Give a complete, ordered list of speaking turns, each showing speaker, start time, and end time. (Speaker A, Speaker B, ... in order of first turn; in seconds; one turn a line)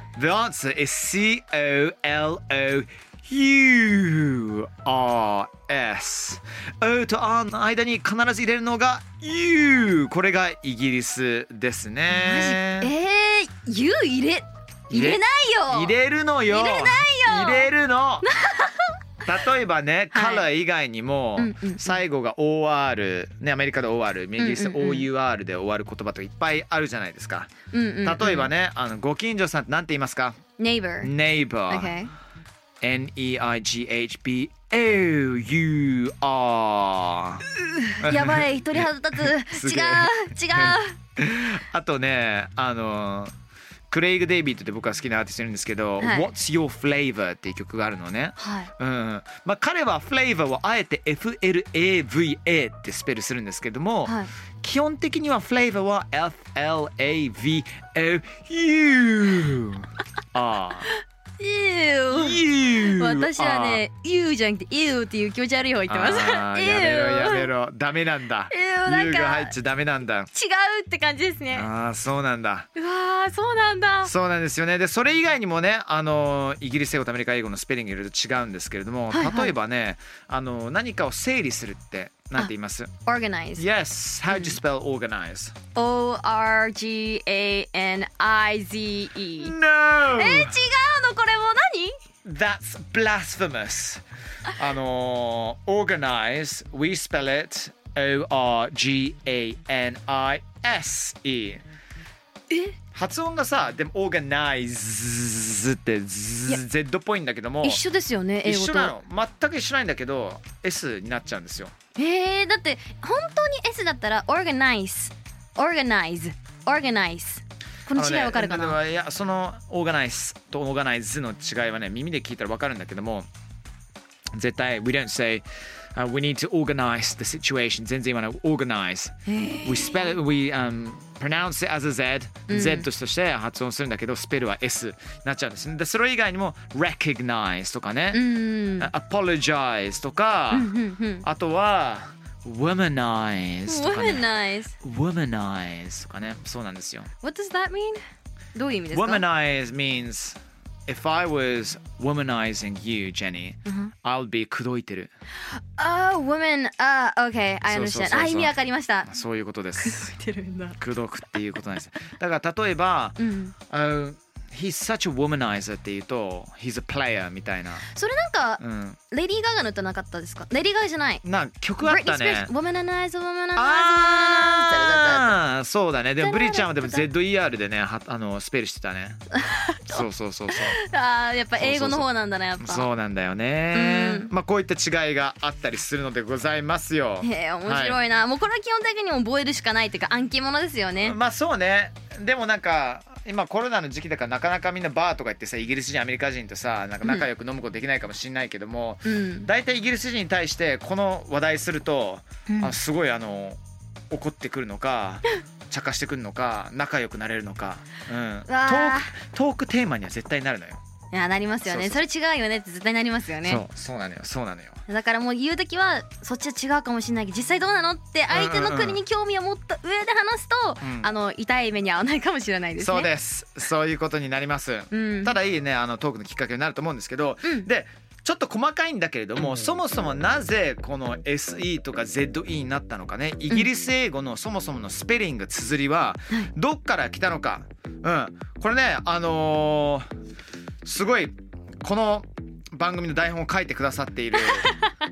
Speaker A: 0.1-12.9
Speaker B: 12.1-15.9
Speaker A: 14.9-18.3
Speaker B: 16.5-17.7
Speaker B: 18.2-18.9
Speaker A: 19.2-27.5
Speaker B: 20.1-20.4
Speaker B: 21.4-22.0
Speaker B: 24.4-25.1
Speaker B: 27.7-28.5
Speaker A: 28.0-30.4
Speaker B: 30.6-31.1
Speaker A: 31.0-31.9
Speaker B: 31.7-32.1
Speaker A: 32.8-37.5
Speaker B: 37.9-41.0
Speaker A: 38.0-43.3
Speaker A: 43.9-60.9
Speaker B: 46.0-46.3
Speaker B: 48.4-48.7
Speaker B: 54.0-54.3
Speaker B: 61.4-67.5
Speaker A: 62.1-63.8
Speaker A: 65.9-70.3
Speaker B: 68.5-69.5
Speaker B: 70.3-71.7
Speaker A: 71.5-72.7
Speaker B: 72.8-74.1
Speaker A: 74.0-82.9
Speaker B: 79.1-79.5
Speaker B: 83.0-83.6
Speaker A: 83.6-85.5
Speaker B: 84.3-84.6
Speaker B: 85.7-91.9
Speaker A: 89.4-90.6
Speaker A: 92.2-94.0
Speaker A: 94.5-101.6
Speaker A: 102.9-107.8
Speaker B: 107.6-108.9
Speaker A: 108.4-111.7
Speaker B: 112.0-118.8
Speaker A: 117.9-123.3
Speaker A: 124.3-147.1
Speaker B: 129.3-130.1
Speaker B: 132.5-132.9
Speaker B: 138.1-138.9
Speaker B: 140.5-141.2
Speaker B: 143.7-144.7
Speaker B: 147.2-148.0
Speaker B: 148.5-149.2
Speaker A: 148.9-155.1
Speaker B: 155.5-159.1
Speaker A: 157.7-158.5
Speaker A: 159.0-160.1
Speaker B: 159.8-160.8
Speaker A: 160.8-163.2
Speaker B: 163.2-163.5
Speaker A: 163.7-167.9
Speaker B: 167.9-171.2
Speaker A: 168.6-169.0
Speaker A: 171.2-172.5
Speaker B: 171.8-175.4
Speaker A: 173.6-179.2
Speaker B: 176.2-177.1
Speaker B: 179.4-182.9
Speaker A: 179.9-180.8
Speaker A: 181.6-182.1
Speaker A: 182.6-188.0
Speaker B: 183.7-184.3
Speaker B: 187.2-191.2
Speaker A: 191.0-210.8
Speaker B: 199.0-199.5
Speaker B: 202.5-202.7
Speaker B: 208.5-209.1
Speaker B: 211.1-213.6
Speaker A: 211.7-212.0
Speaker A: 213.4-214.8
Speaker B: 214.9-223.1
Speaker A: 218.3-219.0
Speaker A: 220.8-221.1
Speaker A: 222.8-240.1
Speaker B: 224.9-225.3
Speaker A: 240.8-244.7
Speaker B: 244.4-244.9